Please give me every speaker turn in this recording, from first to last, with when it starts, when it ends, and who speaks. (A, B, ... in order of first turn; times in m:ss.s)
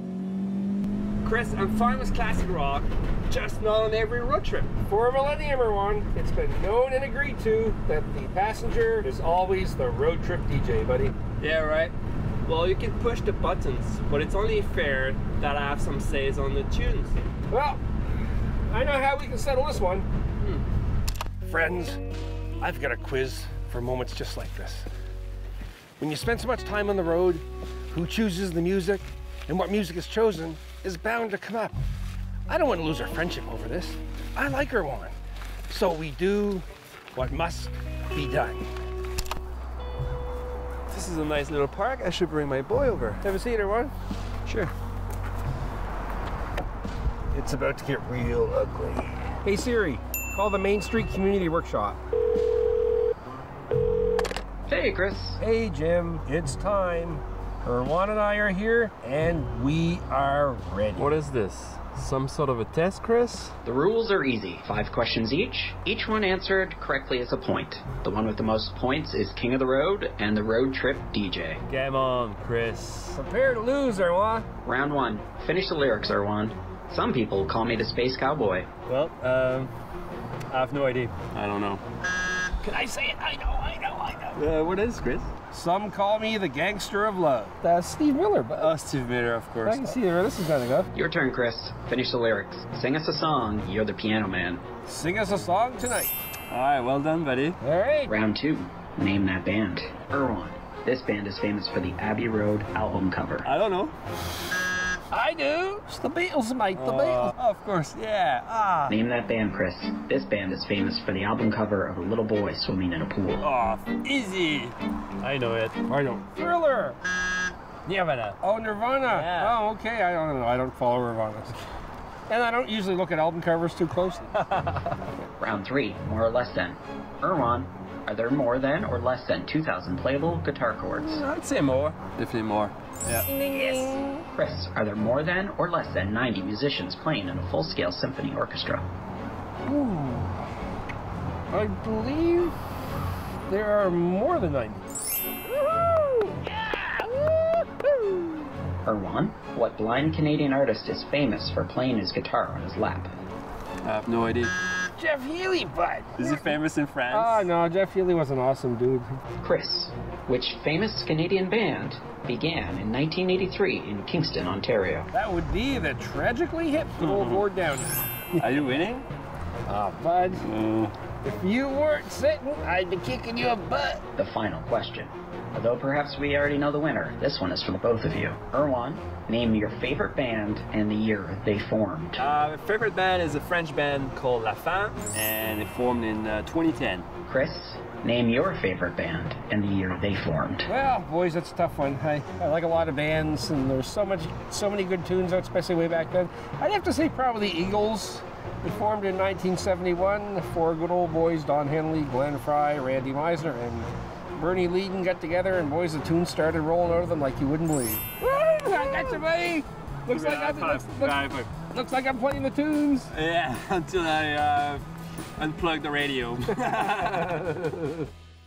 0:01.2-0:04.7 A
0:04.8-0:11.1 B
0:11.4-0:17.2 A
0:17.5-0:17.8 B
0:18.7-0:20.1 B
0:21.4-0:22.0 B
0:22.6-0:24.9 B
0:26.0-0:31.8 B
0:32.5-0:35.1 B
0:35.7-0:38.7 B
0:40.9-0:43.2 A
0:43.2-0:43.9 B
0:44.4-0:44.7 A
0:47.3-0:52.0 B
0:54.7-0:55.4 C
0:55.4-1:01.1 B
1:01.0-1:03.5 A
1:03.6-1:11.6 C
1:11.7-1:13.2 A
1:13.1-1:14.5 B
1:14.6-1:18.7 C
1:18.9-1:19.7 A
1:20.5-1:21.8 A
1:22.6-1:24.4 B
1:24.3-1:25.3 A
1:25.5-1:28.7 B
1:28.6-1:30.0 A
1:29.6-1:30.9 B
1:30.9-1:34.6 C
1:34.8-1:36.1 B
1:36.5-1:37.6 A
1:37.6-1:38.2 B
1:38.1-1:43.5 C
1:43.4-1:43.9 A
1:45.1-1:47.3 B
1:46.7-1:49.0 A
1:48.9-1:53.5 C
1:53.4-1:55.8 A
1:55.9-1:57.0 B
1:57.8-1:58.4 A
1:58.4-2:01.5 B
1:59.1-1:59.6 A
2:02.3-2:04.3 B
2:04.4-2:04.9 A
2:05.4-2:11.2 C
2:11.0-2:14.0 A
2:13.2-2:14.1 B
2:14.3-2:18.9 C
2:19.6-2:20.4 B
2:21.5-2:22.5 B
2:23.5-2:24.9 B
2:25.8-2:28.3 B
2:28.8-2:33.1 C
2:33.8-2:34.5 A
2:34.9-2:36.5 B
2:36.2-2:37.5 A
2:37.1-2:39.2 B
2:39.4-2:45.1 C
2:45.1-2:48.6 B
2:47.0-2:47.4 A
2:48.4-2:49.1 A
2:49.7-2:50.4 B
2:50.3-2:50.9 A
2:51.2-2:54.0 B
2:54.2-3:02.2 C
3:02.2-3:07.1 A
3:07.3-3:10.7 C
3:10.7-3:33.1 B
3:28.7-3:29.0 A
3:30.1-3:31.5 A
3:33.1-3:34.8 A
3:35.4-3:37.9 A